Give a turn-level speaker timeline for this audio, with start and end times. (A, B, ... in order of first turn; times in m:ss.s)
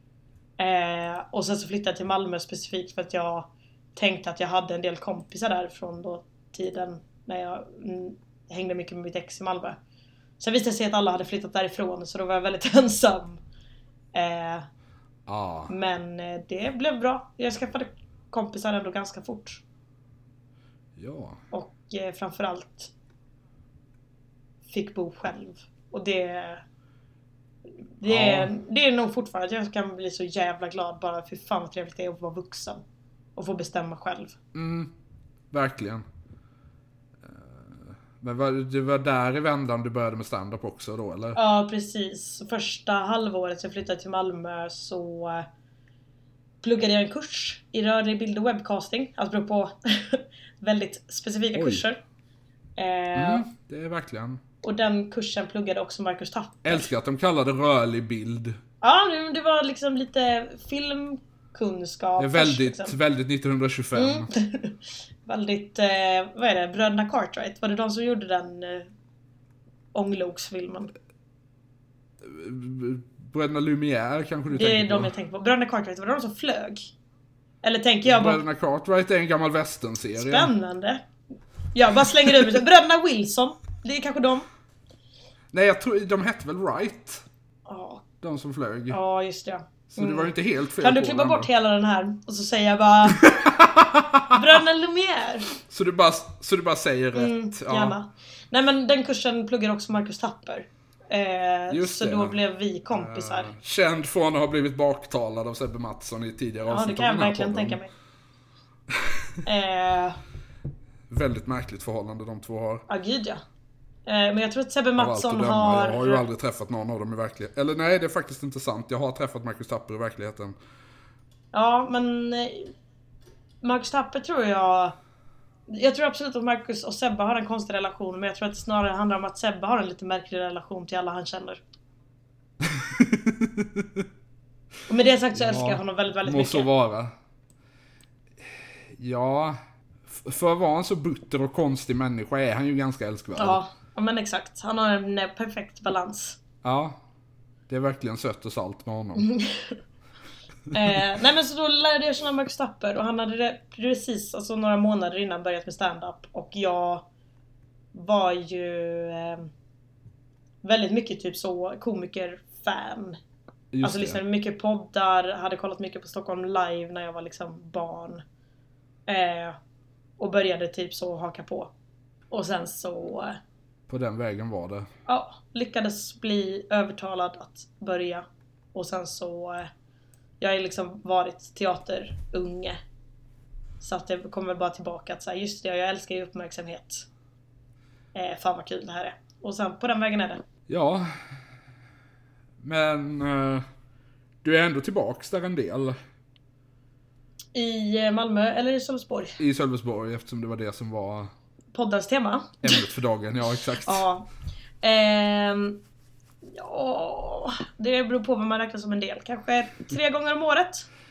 0:00.6-0:09.8 A
0:10.4-0:13.4 A
0:14.1-0:14.7 A
0:15.3-0:15.7 B
0:15.7-0:19.6 A
0:21.0-0:21.4 B
0:21.5-0:22.9 A
0:24.7-0:26.6 A
0:28.0-0:32.8 A
0:28.0-0:28.5 B
0:33.4-0:34.4 A
0:34.5-0:34.9 B
0:35.5-0:36.0 B
0:37.2-0:41.4 B
0:41.4-0:45.5 A
0:46.6-0:52.0 A
0:51.6-0:51.8 B
0:52.8-0:53.5 A
0:53.2-0:54.4 B
0:54.6-0:56.9 A
0:56.6-0:58.6 B
0:58.8-1:03.0 A
1:02.2-1:04.3 B
1:04.0-1:08.9 A
1:09.9-1:10.9 A
1:12.2-1:15.1 B
1:14.5-1:16.9 A
1:17.6-1:18.4 A
1:18.0-1:20.5 B
1:20.2-1:21.1 A
1:21.7-1:24.5 A
1:25.5-1:27.2 B
1:27.7-1:28.0 A
1:28.2-1:29.0 B
1:28.9-1:33.5 A
1:29.9-1:31.5 B
1:33.1-1:34.4 B
1:34.3-1:35.5 A
1:35.6-1:38.0 B
1:37.2-1:43.5 A
1:41.7-1:42.4 B
1:42.9-1:47.8 B
1:46.7-1:47.9 A
1:48.9-1:49.2 B
1:49.4-1:50.2 A
1:51.1-1:52.8 B
1:52.9-1:53.4 A
1:54.1-1:56.2 A
1:55.0-2:00.6 B
2:01.5-2:02.7 A
2:03.6-2:05.0 A
2:05.7-2:11.6 A
2:12.6-2:14.0 B
2:14.9-2:16.7 A
2:15.3-2:17.1 B
2:18.4-2:23.6 B
2:23.4-2:26.4 A
2:26.6-2:27.0 B
2:27.7-2:29.3 B
2:29.2-2:29.8 A
2:30.7-2:37.1 A
2:37.9-2:39.5 A
2:40.6-2:43.2 A
2:43.7-2:44.2 B
2:43.8-2:48.2 A
2:49.1-2:49.6 A
2:50.2-2:51.7 A
2:52.3-2:53.4 A
2:53.9-2:54.9 B
2:55.1-2:59.7 A
3:00.4-3:02.8 A
3:03.8-3:07.1 A
3:08.2-3:10.4 A
3:10.7-3:11.1 B
3:12.6-3:13.6 B
3:14.4-3:16.0 B
3:17.6-3:19.4 A
3:19.4-3:21.3 B
3:21.7-3:22.9 A
3:22.6-3:24.0 B
3:23.7-3:24.3 A
3:24.8-3:25.8 A
3:26.4-3:30.9 A